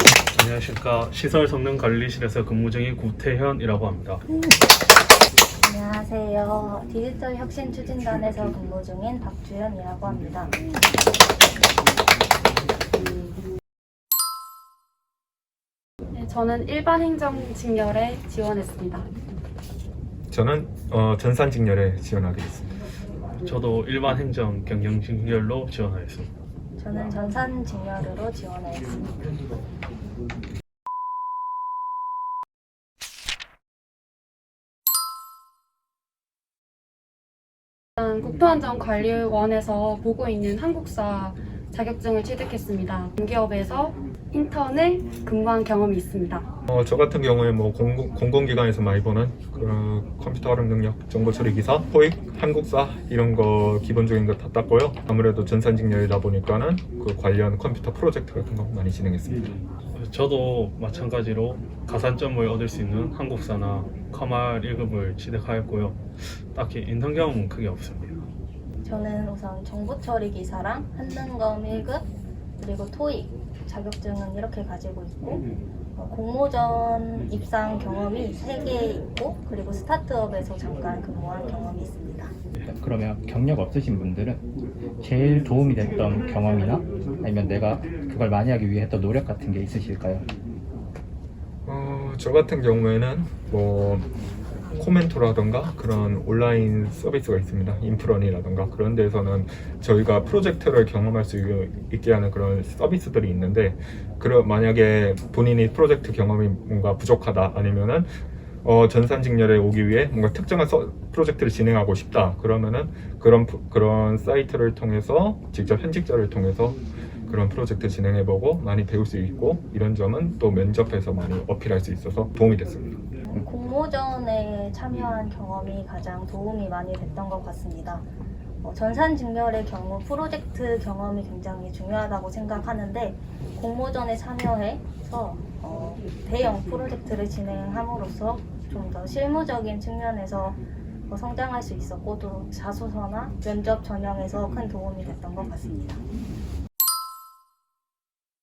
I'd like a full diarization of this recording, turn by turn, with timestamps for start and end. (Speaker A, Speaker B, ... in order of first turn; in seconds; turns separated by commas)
Speaker A: 0.3-4.2, Speaker B: 5.6-10.6, Speaker C: 16.1-19.1, Speaker D: 20.3-22.8, Speaker A: 23.4-26.3, Speaker B: 26.8-29.1, Speaker C: 38.0-46.5, Speaker D: 46.7-59.5, Speaker A: 59.9-68.2, Speaker B: 68.8-72.0, Speaker B: 72.6-75.4, Speaker B: 76.0-82.3, Speaker E: 82.7-84.4, Speaker E: 85.0-90.2, Speaker D: 91.7-94.1, Speaker D: 94.8-123.0, Speaker B: 123.3-128.1, Speaker B: 128.6-146.0